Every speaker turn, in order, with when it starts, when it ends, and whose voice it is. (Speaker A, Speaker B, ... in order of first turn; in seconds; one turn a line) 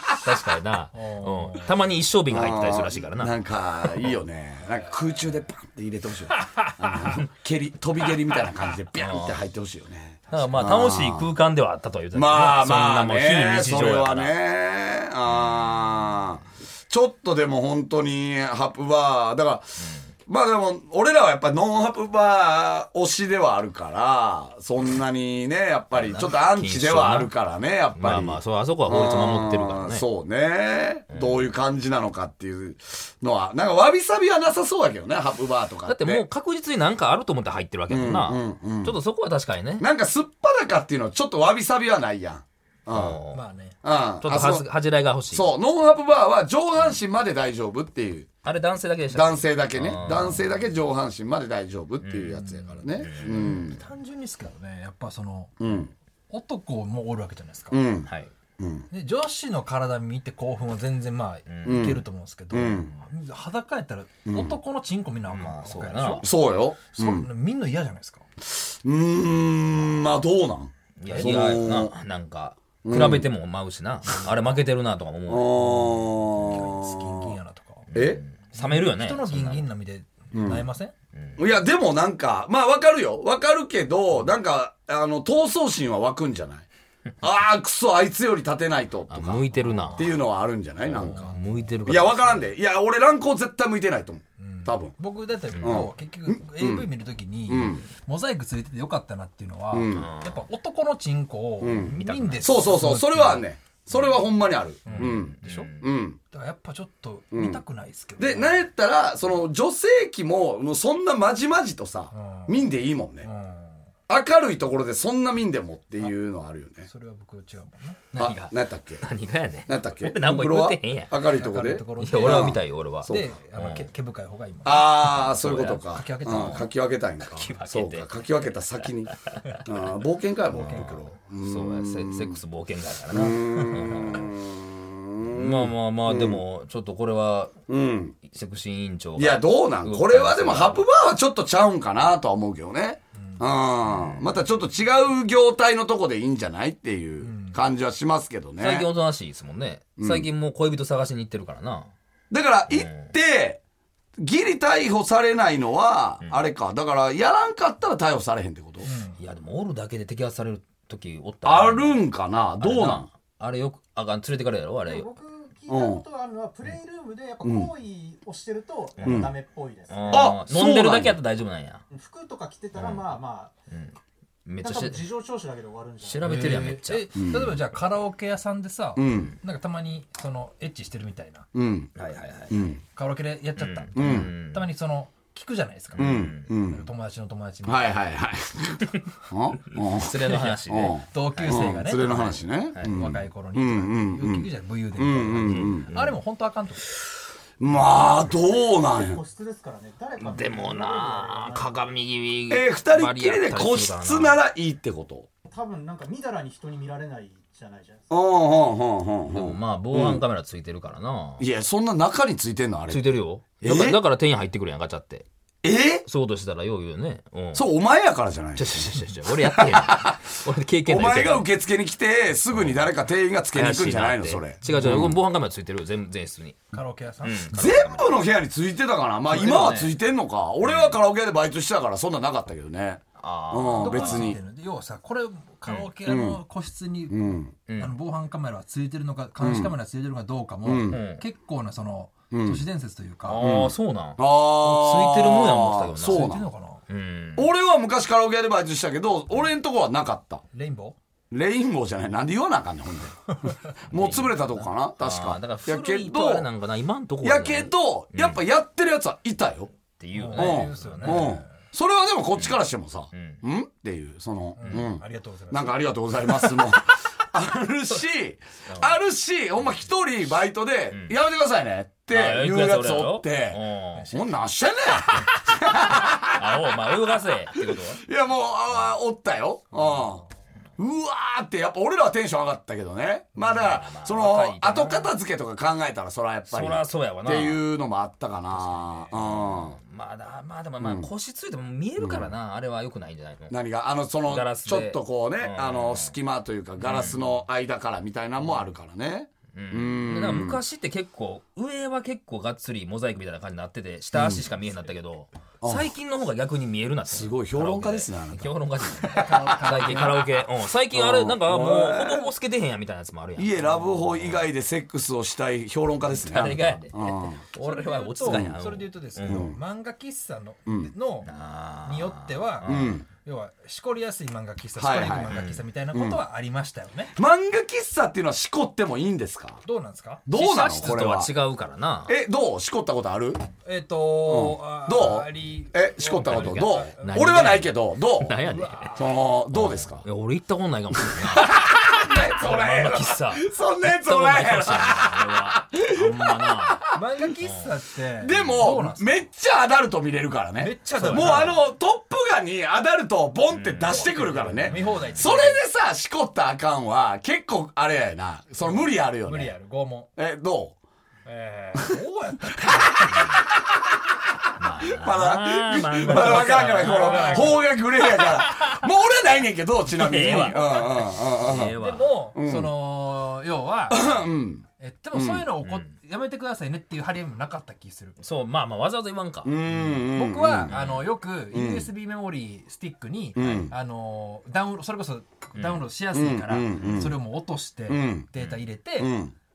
Speaker A: 0.1-3.4
Speaker B: 0.9-1.8
Speaker C: 2.3-11.3
Speaker A: 8.9-9.4
Speaker A: 10.3-14.3
Speaker C: 12.1-36.2
Speaker A: 15.2-16.4
Speaker A: 19.8-20.1
Speaker A: 25.9-27.3
Speaker A: 27.9-30.1
Speaker A: 31.1-31.5
Speaker A: 35.9-39.9
Speaker C: 37.9-39.0
Speaker C: 39.8-43.2
Speaker A: 42.9-43.4
Speaker B: 43.3-43.8
Speaker C: 43.8-44.7
Speaker A: 44.2-45.5
Speaker C: 45.3-48.3
Speaker A: 48.4-50.7
Speaker C: 49.1-53.8
Speaker A: 52.0-53.6
Speaker B: 53.1-57.8
Speaker C: 55.6-55.9
Speaker C: 57.7-58.9
Speaker A: 58.1-58.3
Speaker B: 58.9-66.3
Speaker A: 61.5-61.9
Speaker C: 61.6-63.0
Speaker C: 64.3-64.5
Speaker A: 65.3-66.3
Speaker C: 66.2-67.3
Speaker B: 66.9-68.2
Speaker C: 68.5-71.9
Speaker A: 71.0-75.7
Speaker B: 71.0-71.4
Speaker C: 72.8-73.3
Speaker C: 75.3-77.4
Speaker B: 75.6-77.8
Speaker A: 77.9-79.7
Speaker C: 77.9-78.2
Speaker B: 78.5-80.9
Speaker C: 80.3-80.7
Speaker A: 81.2-81.4
Speaker C: 81.4-86.7
Speaker C: 87.2-91.3
Speaker A: 89.1-90.2
Speaker B: 89.7-90.0
Speaker A: 90.8-92.5
Speaker B: 91.0-91.7
Speaker C: 91.8-95.0
Speaker B: 94.4-103.5
Speaker A: 95.5-95.9
Speaker C: 95.6-96.9
Speaker C: 97.5-97.8
Speaker C: 99.7-100.1
Speaker A: 99.9-100.5
Speaker C: 101.6-106.2
Speaker A: 101.6-102.6
Speaker B: 104.8-105.7
Speaker A: 104.8-105.9
Speaker B: 106.3-108.7
Speaker C: 107.3-107.6
Speaker C: 108.2-113.3
Speaker B: 112.1-112.6
Speaker B: 113.2-113.8
Speaker C: 114.1-116.9
Speaker B: 116.8-118.3
Speaker C: 118.2-119.0
Speaker A: 118.2-121.2
Speaker C: 119.7-123.3
Speaker B: 121.3-124.9
Speaker A: 122.0-123.9
Speaker C: 124.6-132.4
Speaker A: 124.9-126.6
Speaker B: 125.9-126.7
Speaker A: 127.2-128.9
Speaker A: 130.5-134.3
Speaker B: 130.6-131.0
Speaker C: 133.1-136.4
Speaker A: 135.2-137.5
Speaker C: 137.7-138.2
Speaker A: 138.3-140.8
Speaker C: 139.2-148.9
Speaker B: 143.2-143.4
Speaker A: 143.9-144.4
Speaker B: 147.2-147.6
Speaker A: 148.6-151.9
Speaker C: 150.0-150.3
Speaker C: 152.3-153.6
Speaker A: 152.7-153.1
Speaker C: 154.2-158.9
Speaker B: 158.8-159.2
Speaker A: 159.2-162.1
Speaker C: 161.4-163.1
Speaker A: 162.6-165.1
Speaker D: 164.9-170.3
Speaker C: 165.7-166.0
Speaker C: 167.4-167.7
Speaker A: 169.0-169.3
Speaker C: 169.0-169.3
Speaker A: 169.9-171.8
Speaker C: 170.1-171.2
Speaker D: 171.9-173.5
Speaker A: 172.7-173.2
Speaker A: 173.7-175.1
Speaker D: 174.6-176.2
Speaker A: 176.0-177.1
Speaker B: 176.2-181.5
Speaker C: 177.1-177.6
Speaker C: 178.9-179.3
Speaker C: 181.5-181.9
Speaker A: 181.9-182.8
Speaker C: 182.5-182.8
Speaker B: 182.9-188.0
Speaker A: 183.6-184.7
Speaker C: 183.9-184.3
Speaker A: 185.9-186.5
Speaker C: 186.0-186.9
Speaker C: 187.6-195.9
Speaker A: 189.9-192.9
Speaker B: 191.1-196.9
Speaker A: 195.5-196.2
Speaker C: 197.6-199.2
Speaker D: 199.0-201.7
Speaker A: 200.2-204.4
Speaker C: 202.5-205.3
Speaker D: 205.5-208.0
Speaker C: 208.1-210.2
Speaker A: 209.3-211.4
Speaker C: 211.4-213.1
Speaker A: 212.9-215.2
Speaker C: 213.6-214.0
Speaker C: 215.6-216.0
Speaker A: 216.0-217.7
Speaker C: 217.5-220.3
Speaker A: 218.6-221.5
Speaker C: 220.8-225.2
Speaker A: 222.5-223.0
Speaker A: 223.5-228.2
Speaker B: 226.7-227.5
Speaker C: 227.5-234.4
Speaker A: 229.3-229.9
Speaker A: 230.6-231.0
Speaker A: 233.2-234.4
Speaker B: 233.8-243.4
Speaker A: 235.7-235.9
Speaker C: 236.0-236.4
Speaker C: 237.1-237.5
Speaker A: 237.7-237.9
Speaker C: 239.4-239.7
Speaker C: 240.6-241.0
Speaker A: 240.9-241.2
Speaker C: 242.3-242.6
Speaker A: 243.2-246.3
Speaker C: 243.4-246.5
Speaker B: 246.0-246.8
Speaker A: 246.9-247.5
Speaker C: 247.3-250.4
Speaker B: 250.5-251.0
Speaker C: 251.3-256.5
Speaker A: 253.9-258.4
Speaker C: 257.2-259.7
Speaker A: 260.0-261.4
Speaker B: 260.1-261.5
Speaker C: 260.3-276.7
Speaker A: 262.3-263.4
Speaker B: 264.6-265.8
Speaker A: 268.7-269.0
Speaker A: 270.9-271.2
Speaker A: 272.1-274.1
Speaker B: 273.9-274.8
Speaker A: 275.1-278.0
Speaker C: 277.6-280.2
Speaker B: 279.7-280.2
Speaker C: 280.8-289.8
Speaker A: 283.4-285.1
Speaker A: 286.5-287.6
Speaker B: 288.7-289.1
Speaker A: 289.1-293.6
Speaker C: 290.8-291.1
Speaker C: 292.0-292.3
Speaker C: 293.5-300.6
Speaker A: 294.2-296.1
Speaker A: 296.8-297.4
Speaker A: 298.4-298.6
Speaker A: 299.5-314.5
Speaker C: 304.1-304.4
Speaker C: 305.6-305.9
Speaker C: 307.1-308.5
Speaker B: 309.1-310.3
Speaker C: 309.2-310.3
Speaker C: 310.9-312.3
Speaker C: 313.4-317.4
Speaker A: 316.1-319.5
Speaker B: 317.6-321.3
Speaker C: 318.2-318.6
Speaker C: 319.2-319.6
Speaker C: 320.6-320.9
Speaker A: 321.2-323.0
Speaker B: 321.8-327.1
Speaker C: 322.6-323.1
Speaker C: 324.8-326.2
Speaker A: 325.1-325.6
Speaker C: 327.1-329.6
Speaker B: 329.6-330.3
Speaker C: 330.2-331.3
Speaker A: 330.3-332.1
Speaker C: 332.1-333.4
Speaker B: 333.6-337.6
Speaker C: 334.2-338.3
Speaker A: 336.2-338.9
Speaker B: 338.3-339.1
Speaker C: 338.9-340.1
Speaker A: 339.5-341.6
Speaker C: 341.1-346.8
Speaker A: 342.1-346.9
Speaker B: 346.9-349.2
Speaker C: 348.2-359.5
Speaker A: 348.3-348.6
Speaker B: 350.6-351.6
Speaker A: 351.0-351.6
Speaker A: 353.5-355.3
Speaker B: 353.9-355.6
Speaker B: 358.6-360.1
Speaker C: 360.2-360.8
Speaker B: 361.2-363.2
Speaker C: 361.7-362.0
Speaker C: 363.0-363.4
Speaker A: 364.6-368.9
Speaker C: 364.8-371.7
Speaker B: 366.1-367.7
Speaker A: 369.9-372.1
Speaker B: 370.1-371.0
Speaker B: 371.5-374.2
Speaker C: 372.3-372.8
Speaker C: 373.9-375.5
Speaker B: 374.8-378.2
Speaker A: 375.6-375.9
Speaker A: 378.2-379.5
Speaker C: 379.4-380.7
Speaker B: 379.8-389.1
Speaker A: 380.7-381.1
Speaker C: 381.5-381.9
Speaker C: 383.4-383.7
Speaker A: 385.6-385.8
Speaker C: 386.1-387.1
Speaker A: 386.8-387.1
Speaker C: 387.9-388.3
Speaker C: 389.0-389.3